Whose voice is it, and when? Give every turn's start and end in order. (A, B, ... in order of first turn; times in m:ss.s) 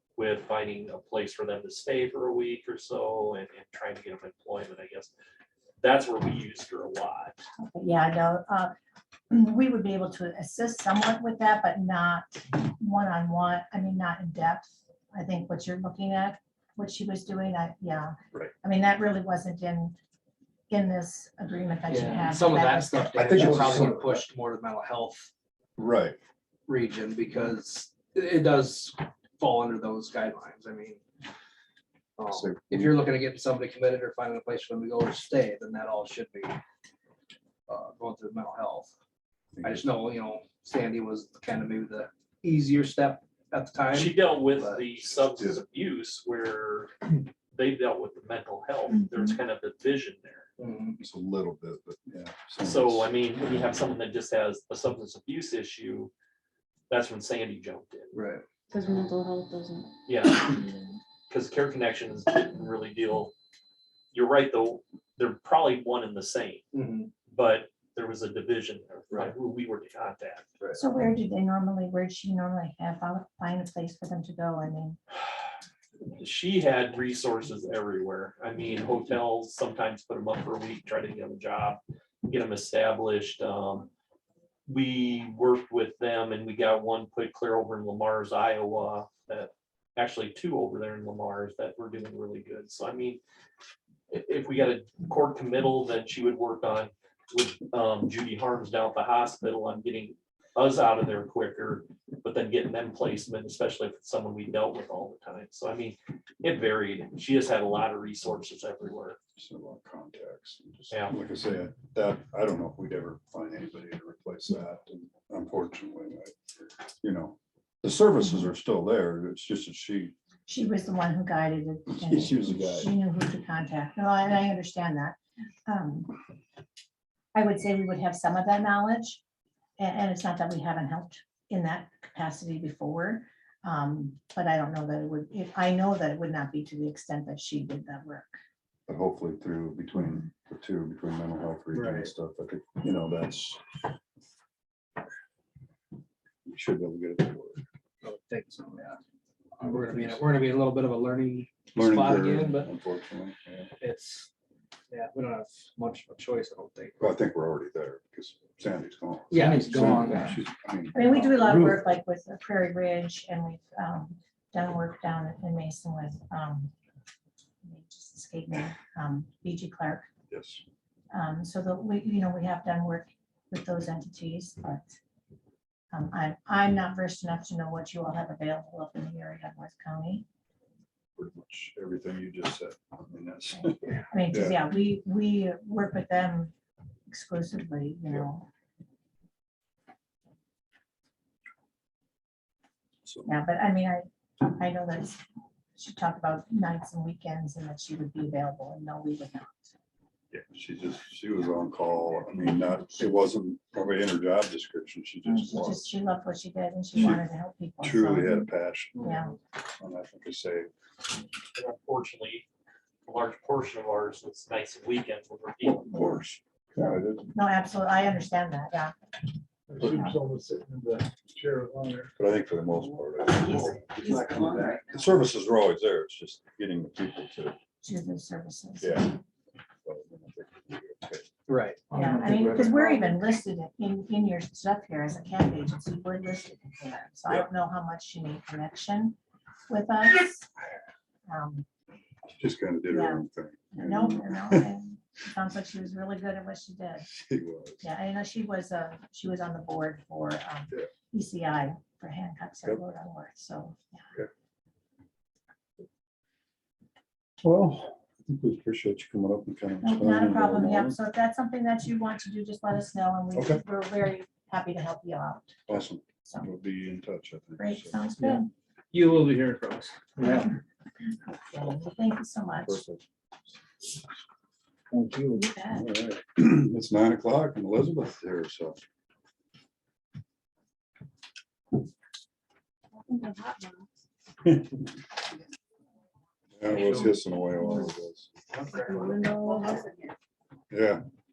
0:00.2-0:05.1 A
0:05.8-0:07.4 A
0:07.6-0:08.7 B
0:09.3-0:20.0 B
0:20.7-0:23.8 B
0:21.9-0:25.3 C
0:23.2-0:24.2 D
0:25.8-0:26.2 D
0:26.7-0:31.0 C
0:32.2-0:36.6 C
0:32.3-0:33.0 D
0:37.7-0:38.9 C
0:39.6-0:39.9 D
0:39.6-0:44.9 C
0:43.9-0:47.0 A
0:47.5-0:50.5 A
0:50.6-0:51.0 C
0:51.0-0:53.1 D
0:52.6-0:56.1 A
0:56.9-0:58.2 A
0:58.1-0:58.4 C
0:58.7-0:59.9 E
1:00.1-1:00.7 A
1:01.3-1:03.3 A
1:04.1-1:06.6 A
1:06.7-1:07.1 C
1:07.3-1:10.4 A
1:10.8-1:15.0 B
1:16.2-1:23.9 A
1:24.7-1:33.2 A
1:34.1-1:49.2 A
1:49.4-1:56.4 D
1:57.0-2:00.1 D
2:00.5-2:06.1 B
2:01.9-2:02.9 D
2:07.3-2:09.2 B
2:09.8-2:18.3 B
2:18.9-2:23.6 D
2:21.7-2:22.1 C
2:26.5-2:27.6 D
2:28.0-2:29.0 C
2:29.6-2:32.7 C
2:29.6-2:30.2 D
2:31.8-2:33.7 D
2:33.8-2:34.3 C
2:34.9-2:37.0 C
2:37.0-2:42.0 D
2:39.3-2:40.4 C
2:40.9-2:46.7 B
2:47.6-2:50.1 B
2:50.3-2:50.6 D
2:51.1-2:55.0 B
2:55.9-3:00.2 B
3:01.2-3:03.8 D
3:03.6-3:06.5 B
3:04.3-3:04.6 D
3:07.1-3:08.5 B
3:13.0-3:13.3 D
3:13.2-3:15.2 B
3:15.8-3:19.7 B
3:20.3-3:25.9 D
3:25.2-3:29.4 B
3:26.9-3:27.2 D
3:27.8-3:29.2 D
3:29.7-3:30.7 D
3:31.6-3:32.4 A
3:33.1-3:36.1 A
3:35.6-3:37.3 D
3:37.3-3:39.0 B
3:39.8-3:42.1 F
3:39.8-3:40.2 B
3:42.2-3:47.6 D
3:43.4-3:44.4 B
3:44.0-3:44.7 F
3:47.8-3:49.0 B
3:48.8-3:49.2 D
3:49.8-3:51.3 D
3:51.5-3:52.9 C
3:51.9-3:59.2 B
3:59.7-4:00.5 B
4:01.3-4:01.6 B
4:02.4-4:04.7 D
4:02.9-4:07.1 B
4:07.0-4:07.9 D
4:07.8-4:14.1 B
4:17.4-4:21.0 D
4:19.8-4:25.6 B
4:23.3-4:23.6 D
4:25.7-4:28.0 D
4:27.6-4:28.5 B
4:28.2-4:30.5 C
4:31.5-4:32.8 B
4:32.7-4:33.0 D
4:35.4-4:35.8 B
4:35.8-4:38.8 D
4:43.0-4:43.9 E
4:44.4-4:44.8 D
4:46.6-4:48.3 D
4:46.7-4:47.1 C
4:48.7-4:50.1 E
4:50.7-4:51.0 D